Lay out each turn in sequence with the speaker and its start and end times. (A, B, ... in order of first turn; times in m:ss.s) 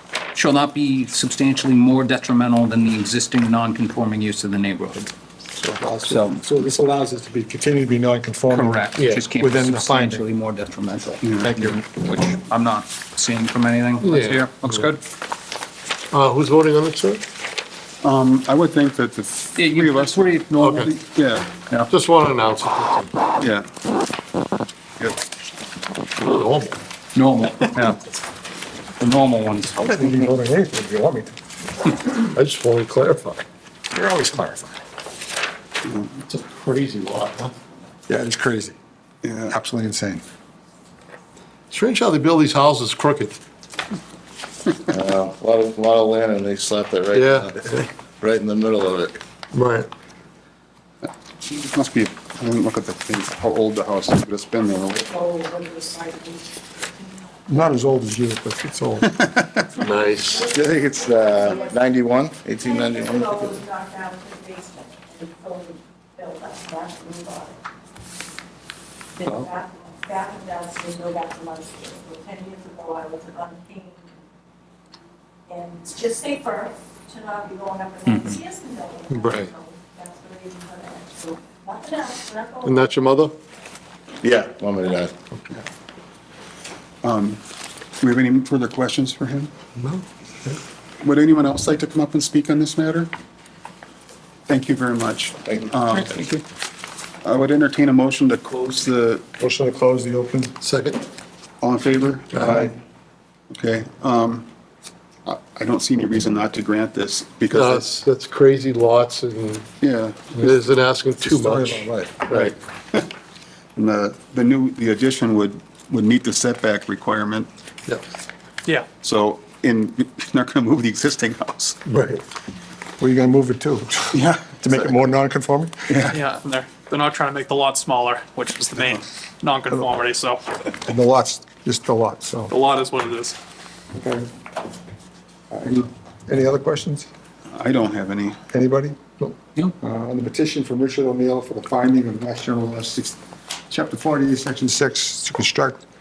0:00.3-0:05.1 A
0:05.6-0:10.2 B
0:06.0-0:06.4 A
0:08.5-0:15.0 A
0:09.0-0:09.2 C
0:11.4-0:11.9 B
0:14.0-0:14.5 C
0:16.1-0:17.2 C
0:18.0-0:20.3 D
0:19.6-0:21.0 A
0:20.6-0:20.9 C
0:21.0-0:21.5 D
0:21.6-0:21.9 A
0:21.9-0:23.2 C
0:23.4-0:23.7 D
0:26.2-0:26.8 C
0:27.2-0:28.0 A
0:29.0-0:29.8 A
0:29.8-0:31.3 B
0:32.1-0:33.4 C
0:33.9-0:34.8 B
0:35.8-0:36.1 D
0:36.2-0:37.5 C
0:38.1-0:38.8 B
0:39.2-0:39.5 D
0:39.5-0:40.2 B
0:41.7-0:43.4 C
0:44.9-0:49.2 E
0:47.1-0:47.8 C
0:49.5-0:49.9 C
0:51.4-0:55.2 D
0:55.2-0:55.9 F
0:57.5-0:59.2 B
0:59.1-0:59.7 D
0:59.8-1:00.5 C
1:00.5-1:03.7 E
1:04.1-1:04.7 F
1:06.2-1:07.3 F
1:10.1-1:13.6 F
1:15.6-1:16.6 F
1:17.3-1:17.9 F
1:18.0-1:18.5 A
1:18.7-1:19.1 F
1:19.1-1:19.5 C
1:20.4-1:21.3 F
1:22.0-1:22.4 F
1:22.6-1:23.4 C
1:24.2-1:25.2 E
1:27.0-1:27.4 D
1:28.0-1:29.5 D
1:29.8-1:30.6 C
1:31.0-1:33.1 D
1:34.5-1:36.1 D
1:35.9-1:36.4 A
1:37.2-1:39.2 D
1:39.4-1:40.6 B
1:40.6-1:41.0 C
1:41.6-1:42.5 D
1:42.3-1:42.7 C
1:42.4-1:42.8 B
1:43.5-1:44.5 D
1:45.3-1:47.9 D
1:47.5-1:49.7 C
1:49.8-1:50.3 D
1:50.3-1:52.6 C
1:51.2-1:52.3 B
1:52.3-1:53.1 D
1:53.8-1:57.5 D
1:59.0-2:01.8 D
2:01.9-2:02.2 C
2:03.0-2:05.9 B
2:04.1-2:04.9 D
2:05.9-2:06.2 D
2:06.1-2:10.4 G
2:10.9-2:12.5 B
2:12.5-2:13.4 G
2:13.9-2:14.3 B
2:15.5-2:17.1 B
2:17.5-2:18.4 D
2:18.5-2:23.2 B
2:23.7-2:25.8 B